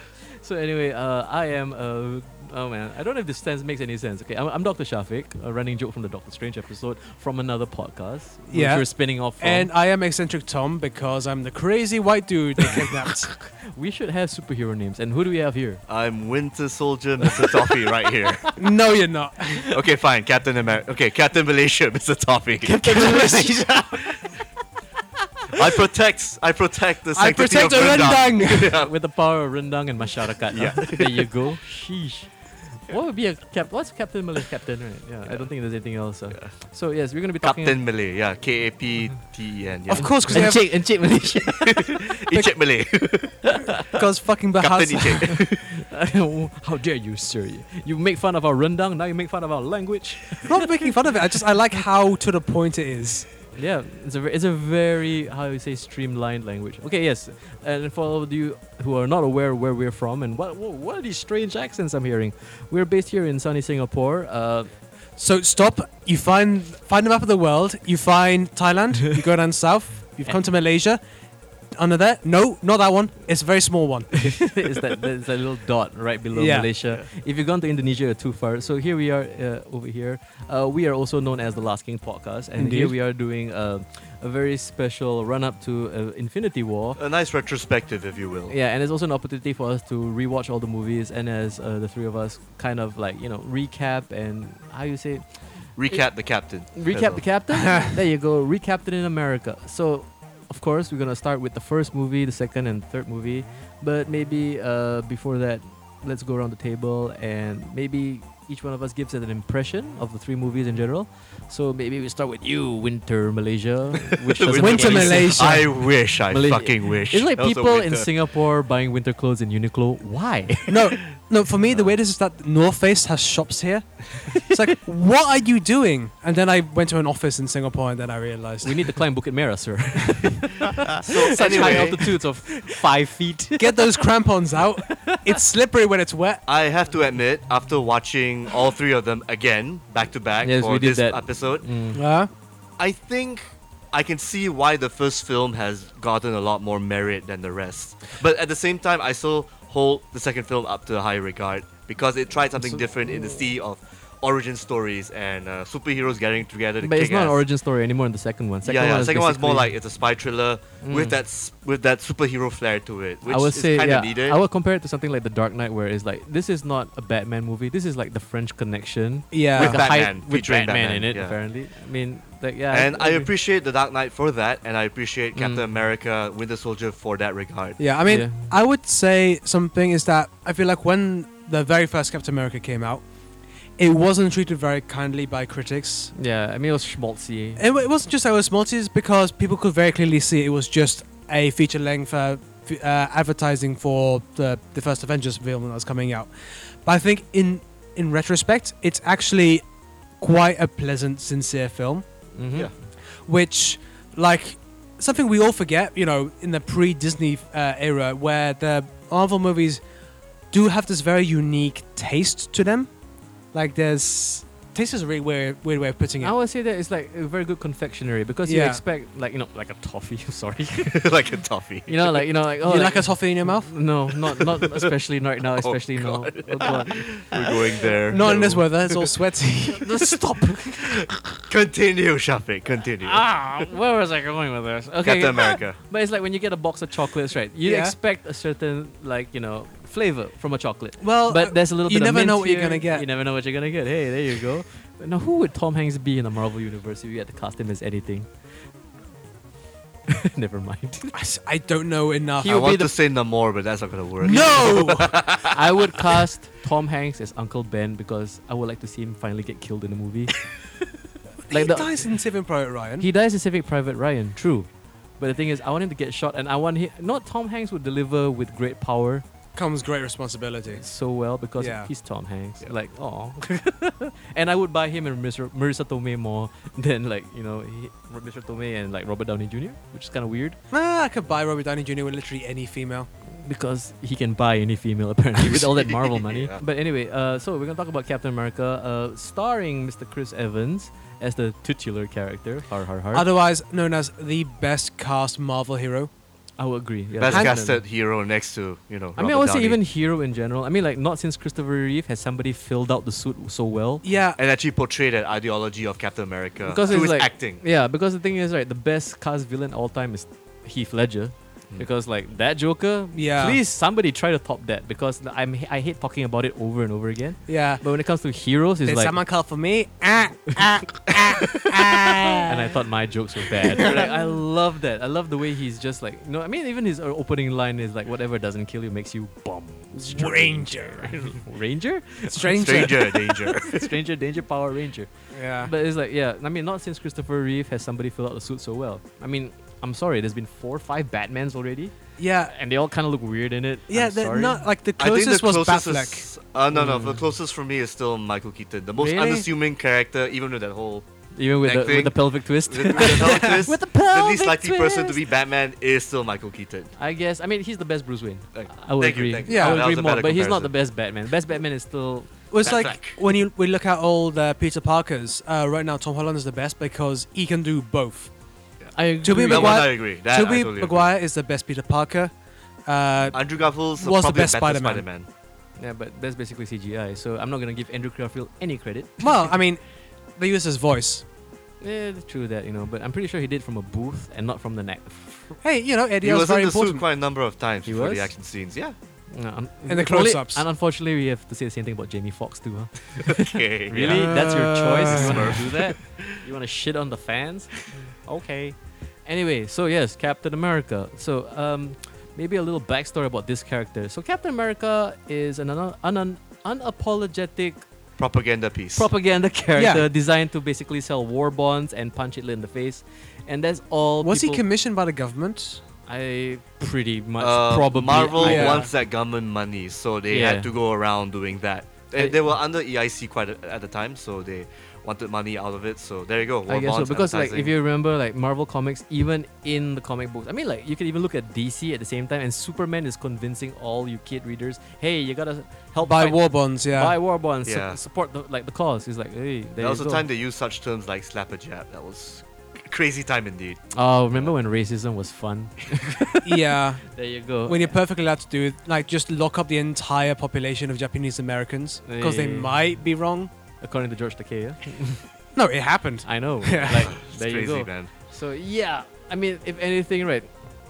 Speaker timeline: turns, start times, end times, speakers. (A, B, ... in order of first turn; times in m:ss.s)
0:00.4-0:09.7 A
0:08.5-0:13.4 B
0:13.3-0:15.8 A
0:15.9-0:18.5 C
0:17.2-0:17.7 A
0:18.6-0:19.7 B
0:19.7-0:23.4 C
0:22.6-0:24.0 B
0:25.5-0:28.9 C
0:27.1-0:28.8 B
0:28.6-0:37.8 A
0:30.5-0:31.4 C
0:35.2-0:36.6 C
0:37.4-0:40.7 C
0:39.9-0:40.7 B
0:40.0-0:42.0 A
0:41.5-0:43.6 C
0:43.4-0:44.0 A
0:44.0-0:45.3 B
0:44.6-0:45.7 C
0:45.3-0:50.8 A
0:50.4-0:53.3 B
0:53.5-1:04.7 A
1:05.2-1:11.0 B
1:11.8-1:14.7 B
1:14.2-1:27.0 A
1:16.3-1:16.7 B
1:22.6-1:22.9 B
1:27.0-1:28.5 C
1:28.5-2:01.0 A
1:35.8-1:37.3 C
1:37.5-1:37.9 B
1:54.3-1:58.1 C
1:54.6-1:55.7 B
2:00.7-2:08.8 B
2:08.6-2:14.0 A
2:11.0-2:12.2 C
2:11.4-2:11.9 B
2:13.6-2:16.4 B
2:14.9-2:15.4 A
2:16.5-2:21.7 C
2:20.4-2:22.0 A
2:21.9-2:22.3 B
2:22.8-2:37.4 C
2:36.8-2:39.7 A
2:38.6-2:44.4 C
2:40.8-2:41.2 A
2:43.3-2:53.3 A
2:49.3-2:49.8 B
2:49.6-2:51.4 C
2:52.7-2:57.8 C
2:55.4-2:55.6 A
2:57.8-3:03.0 B
2:58.1-2:58.5 A
3:03.8-3:06.1 B
3:06.1-3:07.6 A
3:07.6-3:19.6 B
3:20.2-3:22.0 B
3:22.4-3:22.7 A
3:23.2-3:29.8 B
3:30.5-3:32.9 B
3:33.5-3:36.4 B
3:36.2-3:41.1 A
3:38.5-3:38.8 B
3:40.9-3:42.3 C
3:41.9-3:47.6 A
3:42.6-3:43.7 B
3:44.4-3:44.8 C
3:45.6-3:49.1 C
3:48.1-3:49.9 B
3:49.7-3:51.3 A
3:50.9-3:53.6 C
3:53.0-4:08.3 A
3:55.0-3:55.8 C
3:57.6-3:58.0 B
4:01.0-4:03.1 B
4:10.1-4:11.2 A
4:11.1-4:12.6 B
4:12.4-4:12.9 A
4:12.5-4:16.2 C
4:14.2-4:15.1 B
4:15.4-4:20.4 A
4:21.5-4:22.0 A
4:21.5-4:23.1 B
4:23.0-4:24.7 A
4:25.2-4:29.2 A
4:29.6-4:30.8 B
4:30.7-4:40.6 A
4:31.6-4:31.9 B
4:40.7-4:43.1 B
4:43.4-4:53.3 A
4:45.4-4:46.6 C
4:53.1-4:56.1 B
4:56.6-4:57.8 A
4:57.2-4:59.8 C
4:57.3-4:57.6 B
4:59.2-5:04.0 A
5:04.0-5:04.4 B
5:04.4-5:07.6 C
5:06.7-5:19.2 A
5:13.1-5:13.6 B
5:17.5-5:17.8 B
5:18.8-5:22.7 B
5:22.5-5:41.9 A
5:23.6-5:24.1 B
5:29.9-5:31.4 B
5:32.3-5:33.3 B
5:32.6-5:33.9 C
5:35.3-5:35.7 B
5:42.2-5:42.5 B
5:42.5-5:44.6 A
5:43.9-5:46.3 B
5:45.0-5:51.1 C
5:46.7-5:47.2 A
5:49.0-5:49.5 A
5:51.3-5:55.2 A
5:51.6-5:56.9 C
5:53.0-5:53.6 B
5:57.0-6:03.0 A
5:58.5-6:00.9 C
5:59.5-5:59.8 B
6:02.5-6:08.3 B
6:02.6-6:03.2 C
6:08.8-6:11.1 C
6:08.9-6:09.8 A
6:09.2-6:12.3 B
6:12.9-6:13.4 B
6:13.3-6:15.3 C
6:14.0-6:15.0 B
6:15.8-6:19.3 A
6:19.2-6:19.8 B
6:20.4-6:21.2 B
6:21.8-6:25.6 A
6:25.6-6:27.0 B
6:26.2-6:29.0 C
6:27.8-6:28.3 A
6:29.3-6:47.8 A
6:29.9-6:30.6 B
6:33.3-6:36.4 C
6:34.0-6:35.6 B
6:48.2-6:49.1 C
6:49.0-6:54.6 A
6:49.8-6:50.0 B
6:54.2-6:55.8 B
6:56.1-6:58.9 A
6:57.4-7:07.7 C
6:58.4-6:58.9 B
7:00.3-7:00.7 A
7:02.2-7:02.4 A
7:06.7-7:20.3 A
7:16.0-7:17.2 B
7:17.7-7:18.0 C
7:19.8-7:24.5 C
7:23.9-7:28.0 A
7:26.4-7:27.0 B
7:27.6-7:33.5 B
7:32.0-7:32.7 A
7:33.8-7:35.2 A
7:35.6-7:37.1 B
7:36.2-7:40.5 A
7:36.9-7:38.1 C